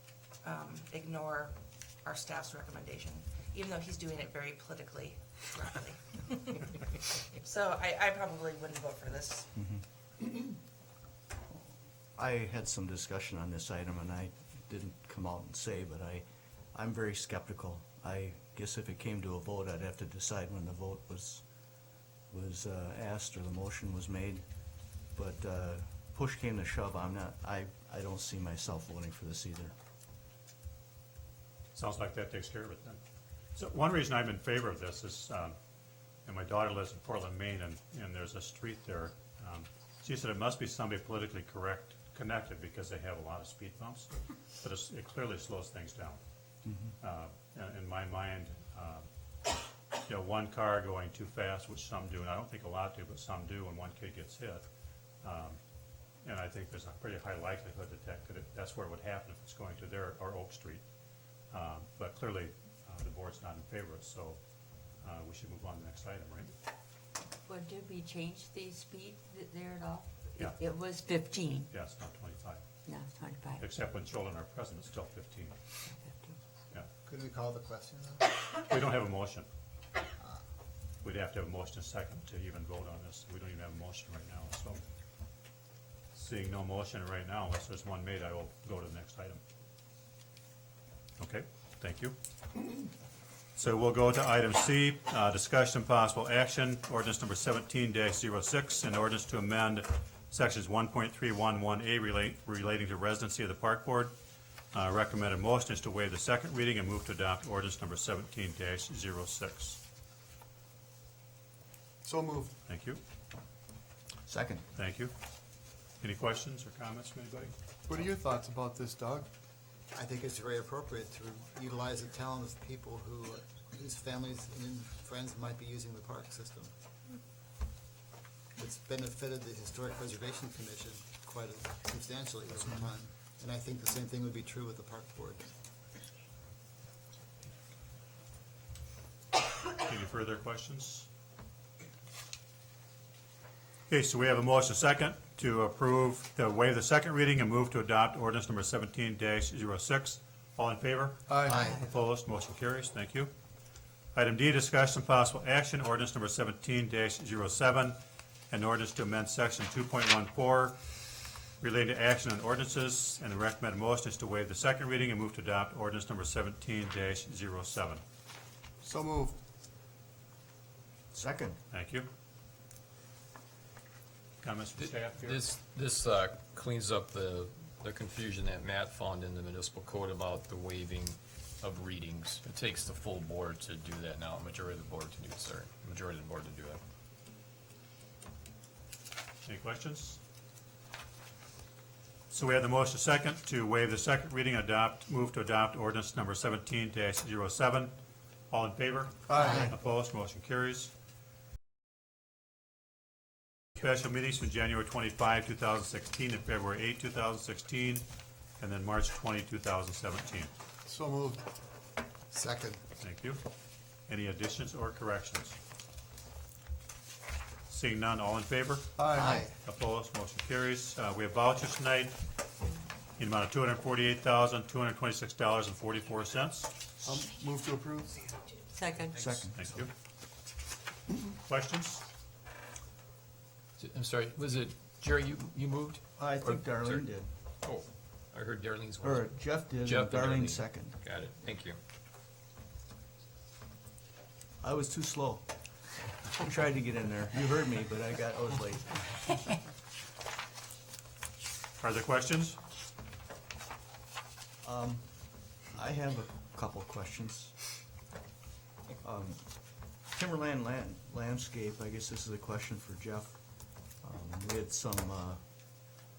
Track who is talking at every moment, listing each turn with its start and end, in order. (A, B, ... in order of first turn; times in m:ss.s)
0:00.4-0:06.8 A
0:07.4-0:09.5 A
0:12.2-0:21.4 B
0:22.3-0:24.4 B
0:25.2-0:29.7 B
0:31.7-0:33.0 C
0:33.6-0:35.6 C
0:36.2-0:46.2 C
0:46.7-0:46.9 B
0:47.0-0:49.1 C
0:50.0-0:54.6 C
0:55.2-0:55.6 C
0:56.2-1:00.8 C
1:01.5-1:04.4 C
1:05.0-1:06.5 C
1:07.5-1:11.7 D
1:11.7-1:12.7 C
1:12.9-1:13.7 D
1:13.6-1:15.6 C
1:15.9-1:16.4 D
1:17.0-1:18.2 E
1:18.6-1:19.5 C
1:21.0-1:24.8 C
1:26.1-1:29.4 C
1:31.2-1:32.2 C
1:33.6-1:44.1 C
1:44.7-1:49.8 C
1:52.0-1:52.5 F
1:52.7-1:53.0 C
1:54.3-1:54.6 B
1:54.7-1:55.1 C
1:56.0-1:57.5 C
1:57.9-1:59.3 F
1:59.9-2:06.7 E
2:08.6-2:15.5 E
2:19.8-2:21.1 C
2:23.9-2:33.3 C
2:31.3-2:31.6 F
2:31.5-2:31.8 E
2:34.1-2:38.0 C
2:38.5-2:40.8 C
2:41.6-2:48.0 C
2:48.8-2:49.4 F
2:51.1-2:51.6 B
2:51.7-2:52.1 C
2:54.4-2:55.4 C
2:54.8-3:06.8 G
3:09.4-3:10.2 C
3:12.3-3:17.9 C
3:18.5-3:20.9 C
3:19.3-3:19.7 F
3:23.8-3:28.0 C
3:28.6-3:30.5 C
3:30.9-3:31.4 F
3:32.3-3:32.8 E
3:33.0-3:33.4 C
3:34.1-3:35.6 C
3:37.7-3:42.2 C
3:39.0-3:39.4 F
3:39.2-3:39.5 B
3:43.2-3:46.7 C
3:47.0-3:48.1 F
3:48.7-3:49.2 D
3:49.1-3:49.7 B
3:49.5-3:49.9 C
3:51.4-3:52.0 C
3:53.8-3:57.1 G
3:56.2-3:57.3 B
3:57.6-4:01.8 G
3:59.0-4:01.0 B
4:04.6-4:05.5 B
4:06.3-4:09.5 B
4:11.8-4:12.6 C
4:14.6-4:15.0 B
4:15.7-4:17.6 B
4:19.0-4:19.4 B
4:20.1-4:23.4 B
4:24.0-4:25.4 B